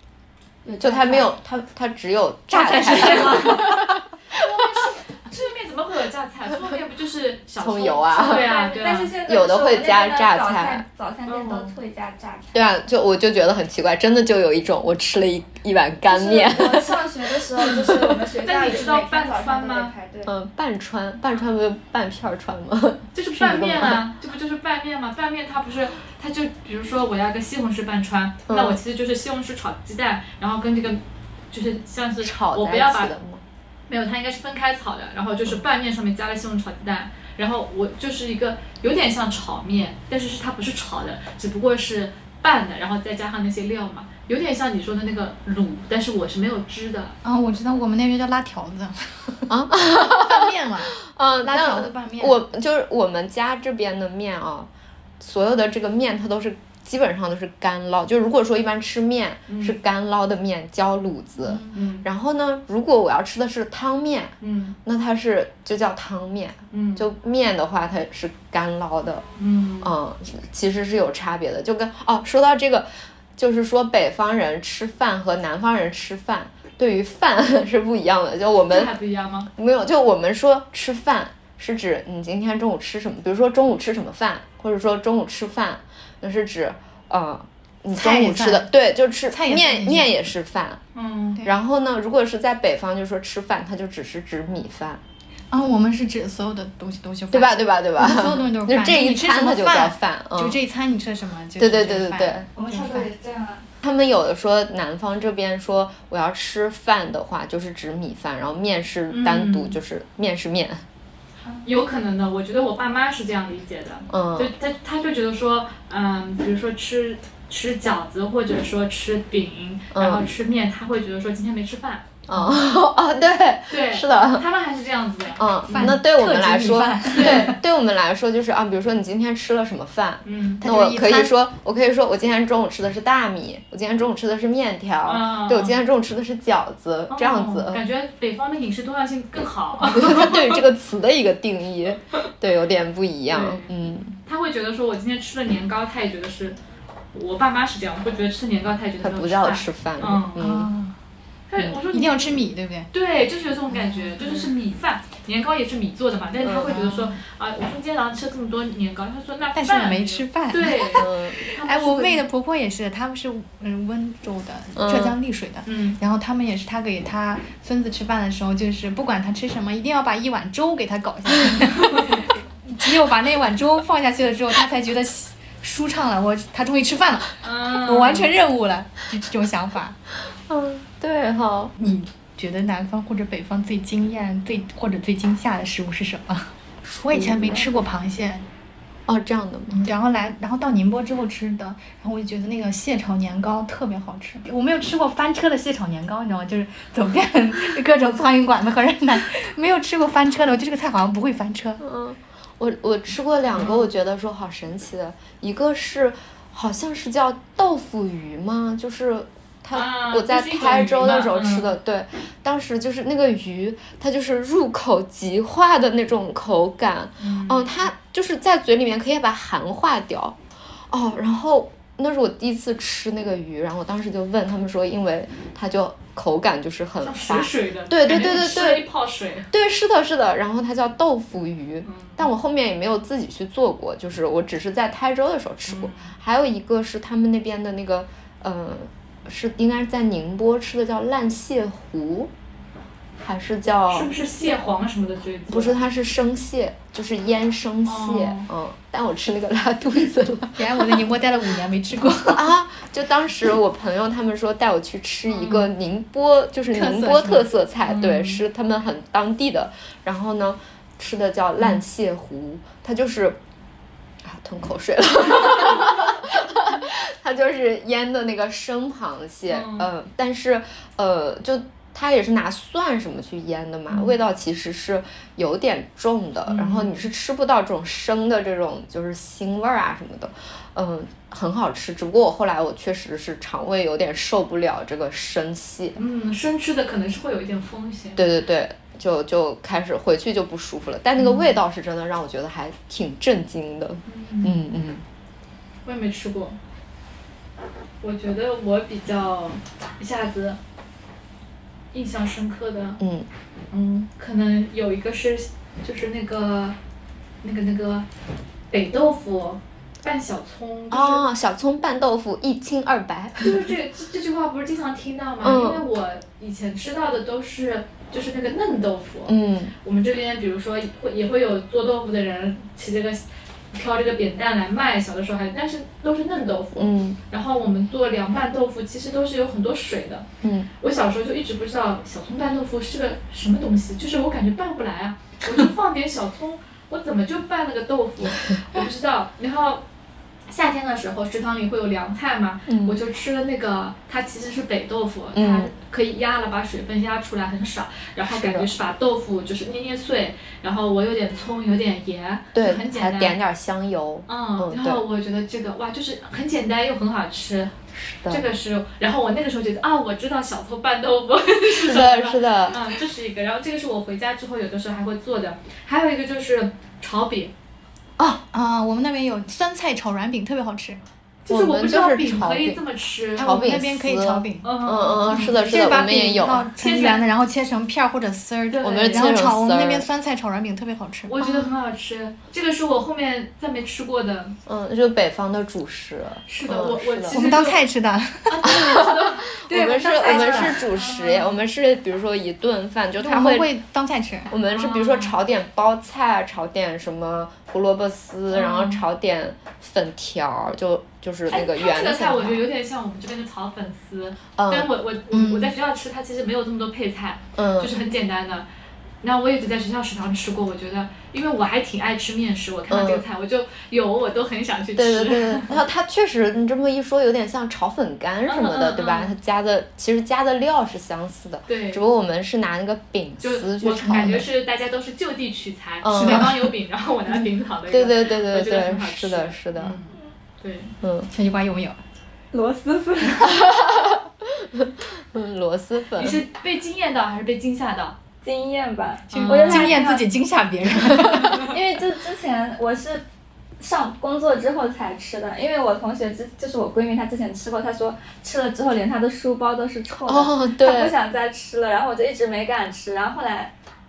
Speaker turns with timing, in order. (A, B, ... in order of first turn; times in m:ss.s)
0:00.6-0:01.3 A
0:00.8-0:04.0 B
0:02.5-0:03.8 C
0:02.9-0:03.7 D
0:04.3-0:09.1 D
0:07.6-0:08.5 B
0:08.2-0:12.7 A
0:09.2-0:10.8 B
0:11.3-0:11.7 D
0:12.5-0:17.1 B
0:16.1-0:20.3 A
0:17.6-0:20.0 D
0:20.2-0:24.0 B
0:23.2-0:33.1 D
0:28.5-0:28.8 B
0:32.2-0:33.4 B
0:33.9-0:47.2 D
0:47.2-0:49.5 C
0:49.5-1:04.3 B
0:50.1-0:52.4 C
0:59.5-0:59.8 D
1:01.4-1:01.8 C
1:01.7-1:02.1 D
1:04.4-1:04.8 D
1:04.8-1:09.2 B
1:06.7-1:07.1 D
1:09.4-1:09.9 D
1:09.8-1:18.9 B
1:18.7-1:19.5 D
1:19.6-1:30.8 B
1:27.9-1:28.7 C
1:29.3-1:30.1 C
1:31.0-1:31.4 D
1:31.4-1:35.0 B
1:35.5-1:43.1 C
1:37.3-1:40.6 B
1:41.6-1:42.5 B
1:42.6-1:43.7 A
1:43.8-1:50.8 B
1:49.1-1:49.8 D
1:51.6-2:02.1 D
1:54.1-1:54.5 B
1:59.9-2:00.2 B
2:02.3-2:04.4 B
2:03.7-2:06.0 D
2:05.4-2:17.8 B
2:05.7-2:07.6 C
2:07.2-2:07.5 D
2:10.2-2:10.6 D
2:10.6-2:11.3 C
2:15.0-2:15.8 D
2:17.1-2:20.6 D
2:19.8-2:24.2 B
2:23.3-2:23.7 D
2:24.3-2:26.6 D
2:27.1-2:30.4 D
2:29.0-2:30.7 B
2:30.4-2:31.0 C
2:31.5-2:32.3 D
2:31.9-2:32.9 C
2:32.9-2:42.2 D
2:33.7-2:34.5 C
2:36.4-2:36.9 B
2:36.6-2:37.2 C
2:39.5-3:00.0 C
2:40.9-2:41.4 B
2:44.8-2:45.2 B
2:45.7-2:46.0 D
2:51.8-2:52.2 D
2:57.4-2:58.3 D
3:00.5-3:01.7 B
3:01.8-3:08.5 C
3:07.1-3:07.6 B
3:09.1-3:09.8 B
3:09.7-3:21.8 C
3:21.8-3:40.4 B
3:29.7-3:31.7 D
3:37.2-3:37.7 D
3:40.9-3:48.8 B
3:47.0-3:49.5 D
3:49.5-4:02.3 B
3:51.8-3:52.3 D
3:55.7-3:56.1 D
4:03.2-4:04.1 B
4:03.9-4:05.8 D
4:05.5-4:11.1 B
4:07.9-4:08.5 D
4:10.6-4:12.5 C
4:12.3-4:23.4 B
4:15.3-4:15.7 D
4:16.7-4:17.5 C
4:17.9-4:18.4 D
4:24.2-4:46.0 B
4:29.5-4:29.9 D
4:33.9-4:34.2 D
4:36.5-4:37.1 D
4:46.0-4:48.2 D
4:48.2-4:55.0 B
4:51.2-4:51.5 D
4:54.1-4:54.5 D
4:55.8-4:56.6 D
4:58.0-5:00.6 D
5:01.9-5:03.0 D
5:03.0-5:03.3 B
5:03.7-5:06.8 D
5:07.4-5:08.1 D
5:08.7-5:11.3 D
5:10.9-5:13.6 B
5:13.4-5:30.3 D
5:15.4-5:15.8 B
5:19.3-5:19.7 B
5:26.8-5:27.2 B
5:30.4-5:30.7 B
5:30.8-5:39.8 D
5:40.5-5:53.4 D
5:42.7-5:43.0 B
5:45.3-5:45.7 B
5:48.3-5:48.7 B
5:52.5-5:55.0 B
5:54.3-5:57.7 D
5:57.9-5:58.5 B
5:58.3-6:07.5 D
6:01.8-6:02.8 B
6:08.2-6:08.4 B
6:08.5-6:11.0 C
6:11.5-6:13.5 D
6:11.5-6:12.8 B
6:13.4-6:16.7 B
6:13.4-6:14.7 C
6:14.6-6:15.9 D
6:15.2-6:21.4 C
6:16.8-6:17.2 D
6:18.7-6:19.5 D
6:18.8-6:20.1 B
6:21.3-6:24.6 D
6:21.4-6:21.7 B
6:24.7-6:27.4 B
6:26.5-6:27.8 D
6:27.3-6:28.7 C
6:28.5-6:29.6 D
6:28.6-6:33.7 B
6:29.7-6:30.9 C
6:30.1-6:30.7 A
6:30.3-6:31.6 D
6:33.2-6:34.5 C
6:34.5-6:42.6 B
6:34.7-6:35.4 D
6:38.5-6:39.0 D
6:41.5-6:48.7 D
6:44.6-6:44.9 B
6:45.3-6:45.7 C
6:47.6-6:47.9 B
6:49.2-6:55.8 D
6:52.9-6:53.2 B
6:55.0-7:04.5 B
6:58.5-6:59.4 D
7:01.7-7:02.0 D
7:03.4-7:10.9 D
7:06.0-7:06.6 B
7:06.1-7:06.7 C
7:07.9-7:10.0 B
7:11.0-7:11.3 B
7:11.3-7:12.0 C
7:12.5-7:13.6 A
7:13.5-7:16.4 B
7:16.2-7:18.2 D
7:18.4-7:20.2 A
7:19.3-7:20.3 D
7:19.6-7:21.6 C
7:21.6-7:23.2 A
7:23.8-7:33.7 A
7:30.3-7:31.1 B